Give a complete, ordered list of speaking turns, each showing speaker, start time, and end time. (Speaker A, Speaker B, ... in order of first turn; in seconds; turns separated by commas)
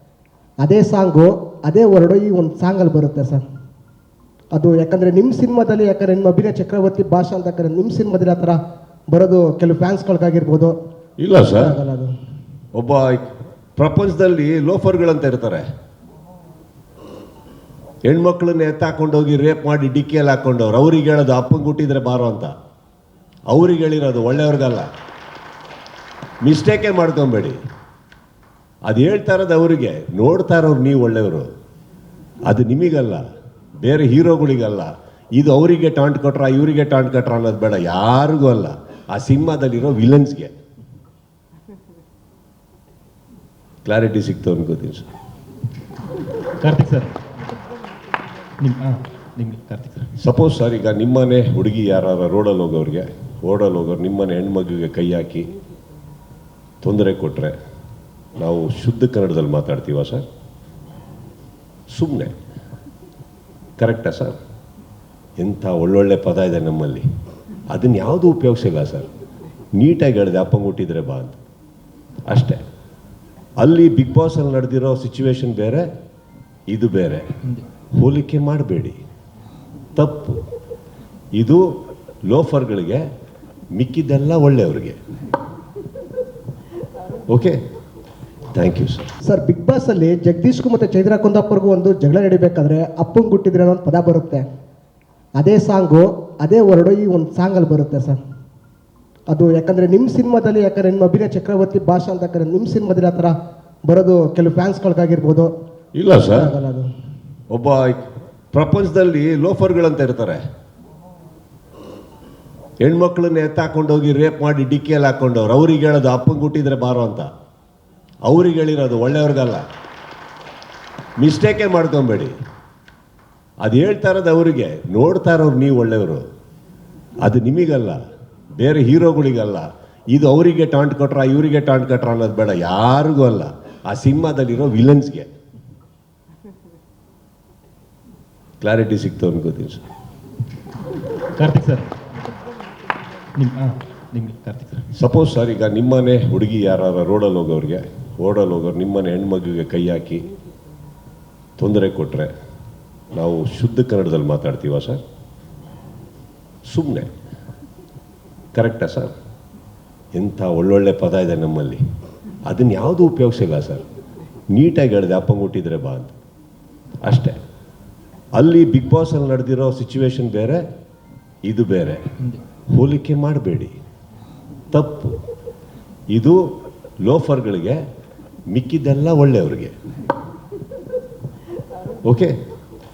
Speaker A: 0.6-3.4, Speaker A: 4.5-8.6, Speaker A: 9.1-10.7, Speaker B: 11.2-11.8, Speaker A: 11.5-12.1, Speaker B: 12.7-13.2, Speaker B: 13.8-15.6, Speaker B: 18.1-22.5, Speaker B: 23.5-24.9, Speaker B: 26.4-27.6, Speaker B: 28.9-31.5, Speaker B: 32.5-33.2, Speaker B: 33.8-40.5, Speaker B: 43.8-45.1, Speaker C: 46.6-47.1, Speaker C: 48.6-50.1, Speaker B: 50.2-55.5, Speaker B: 56.8-57.5, Speaker B: 58.4-60.2, Speaker B: 61.9-62.3, Speaker B: 63.8-64.4, Speaker B: 65.4-67.0, Speaker B: 67.7-69.1, Speaker B: 69.8-71.4, Speaker B: 72.3-72.6, Speaker B: 73.6-75.9, Speaker B: 76.7-77.4, Speaker B: 78.0-79.0, Speaker B: 80.0-80.4, Speaker B: 81.4-81.6, Speaker B: 82.3-83.0, Speaker B: 83.8-85.0, Speaker B: 87.3-87.6, Speaker B: 88.5-89.1, Speaker A: 89.2-94.4, Speaker A: 95.4-98.2, Speaker A: 99.3-103.3, Speaker A: 103.8-105.5, Speaker B: 106.0-106.5, Speaker A: 106.3-106.9, Speaker B: 107.5-108.0, Speaker B: 108.5-110.4, Speaker B: 112.8-117.3, Speaker B: 118.2-119.6, Speaker B: 121.2-122.3, Speaker B: 123.6-126.2, Speaker B: 127.2-128.0, Speaker B: 128.6-135.3, Speaker B: 138.6-139.8, Speaker C: 141.4-141.9, Speaker C: 143.3-144.9, Speaker B: 144.9-150.3, Speaker B: 151.6-152.3, Speaker B: 153.1-155.0, Speaker B: 156.7-157.1, Speaker B: 158.5-159.1, Speaker B: 160.2-161.8, Speaker B: 162.5-163.8, Speaker B: 164.5-166.1, Speaker B: 167.0-167.3, Speaker B: 168.4-170.6, Speaker B: 171.4-172.1, Speaker B: 172.7-173.7, Speaker B: 174.7-175.2, Speaker B: 176.1-176.4, Speaker B: 177.0-177.8, Speaker B: 178.5-179.7, Speaker B: 182.0-182.3